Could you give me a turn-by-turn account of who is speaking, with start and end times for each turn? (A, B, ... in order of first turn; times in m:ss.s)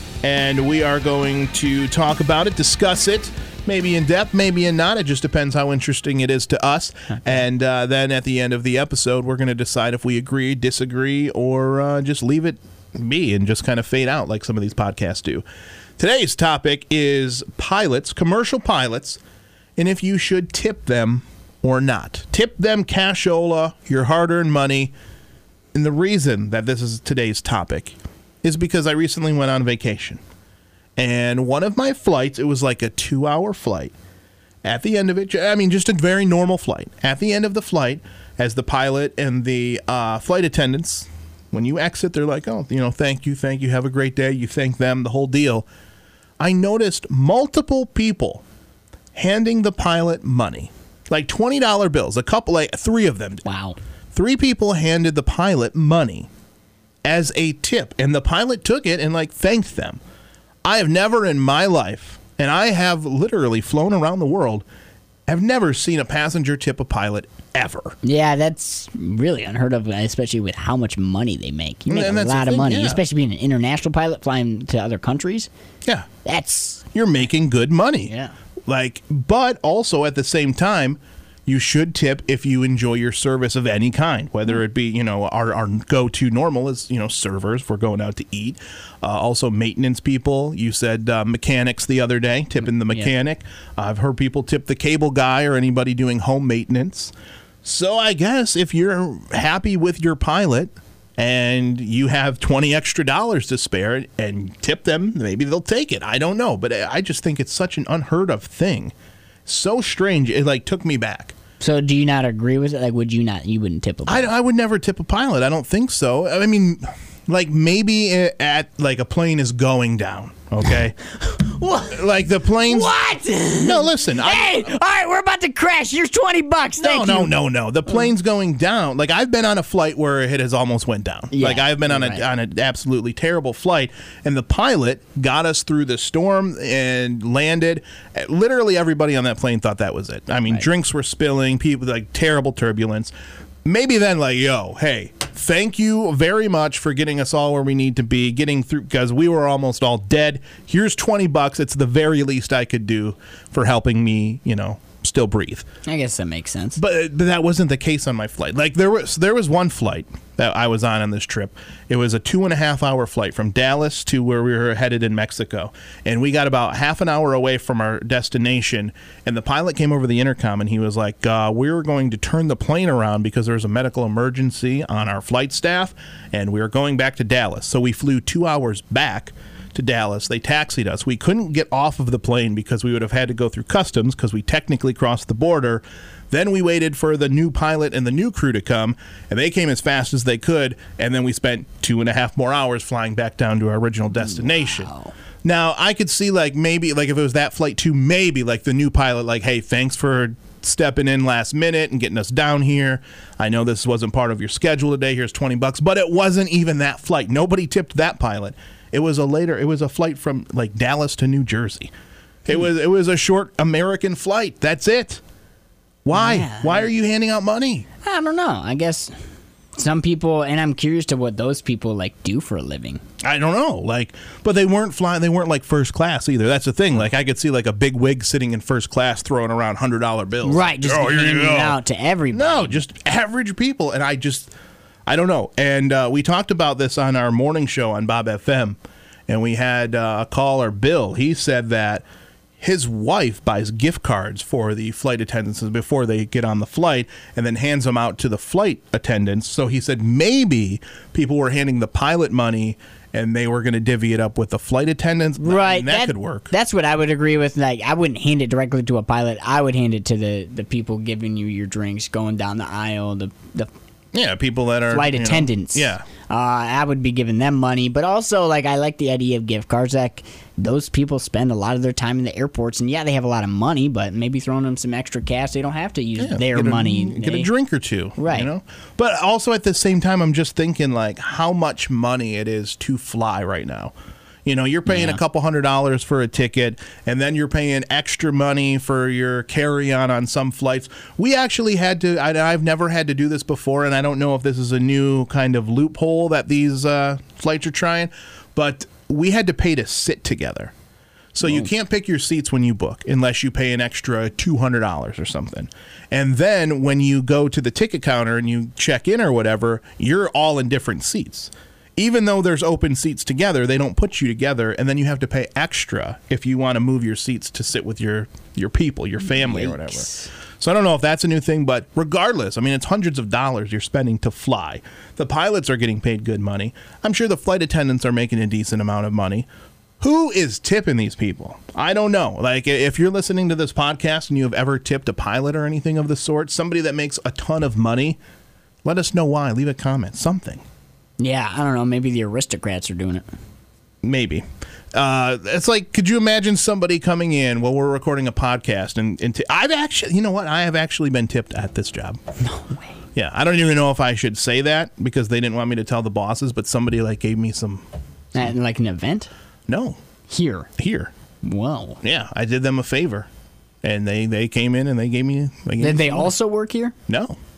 0:00.2-0:15.4 A
0:16.0-0:19.2 A
0:19.8-0:24.9 A
0:25.7-0:30.2 A
0:31.0-0:33.9 A
0:34.6-0:45.7 A
0:46.4-0:48.4 A
0:49.1-0:53.5 A
0:53.4-0:53.8 B
0:54.1-0:56.3 A
0:57.0-1:00.0 A
1:00.6-1:04.6 A
1:05.3-1:08.0 A
1:08.0-1:15.5 B
1:11.9-1:13.0 A
1:16.2-1:16.8 B
1:16.9-1:18.1 A
1:18.1-1:18.3 B
1:18.7-1:37.1 A
1:32.8-1:33.1 B
1:37.6-1:48.9 A
1:49.5-1:51.4 A
1:51.6-1:54.3 B
1:54.1-2:01.2 A
2:01.4-2:01.9 B
2:01.8-2:02.9 A
2:02.7-2:07.3 B
2:03.6-2:04.7 A
2:06.8-2:23.1 A
2:11.3-2:12.2 B
2:23.6-2:35.7 A
2:35.8-2:36.8 B
2:36.8-3:14.9 A
3:14.1-3:15.1 B
3:15.4-3:31.9 A
3:32.4-3:35.2 A
3:36.0-3:37.9 A
3:36.1-3:36.9 B
3:38.0-3:39.1 B
3:39.8-3:43.0 B
3:43.2-3:51.8 A
3:50.4-3:52.8 B
3:52.3-3:54.5 A
3:55.1-4:02.0 A
4:02.6-4:16.5 A
4:15.4-4:23.7 B
4:24.1-4:26.1 A
4:24.9-4:37.5 B
4:36.2-4:43.9 A
4:38.2-4:38.5 B
4:44.4-5:00.7 A
4:44.9-4:45.2 B
5:01.4-5:29.5 A
5:19.2-5:20.3 B
5:30.0-5:38.2 A
5:38.8-5:40.6 A
5:41.2-5:43.2 B
5:44.0-5:52.2 A
5:52.5-5:52.9 B
5:53.1-5:57.8 A
5:58.3-5:59.3 B
5:59.7-6:00.0 A
6:00.3-6:00.7 B
6:00.8-6:01.1 A
6:01.4-6:02.0 B
6:02.0-6:03.3 A
6:03.8-6:06.3 A
6:05.8-6:06.9 B
6:07.1-6:07.4 A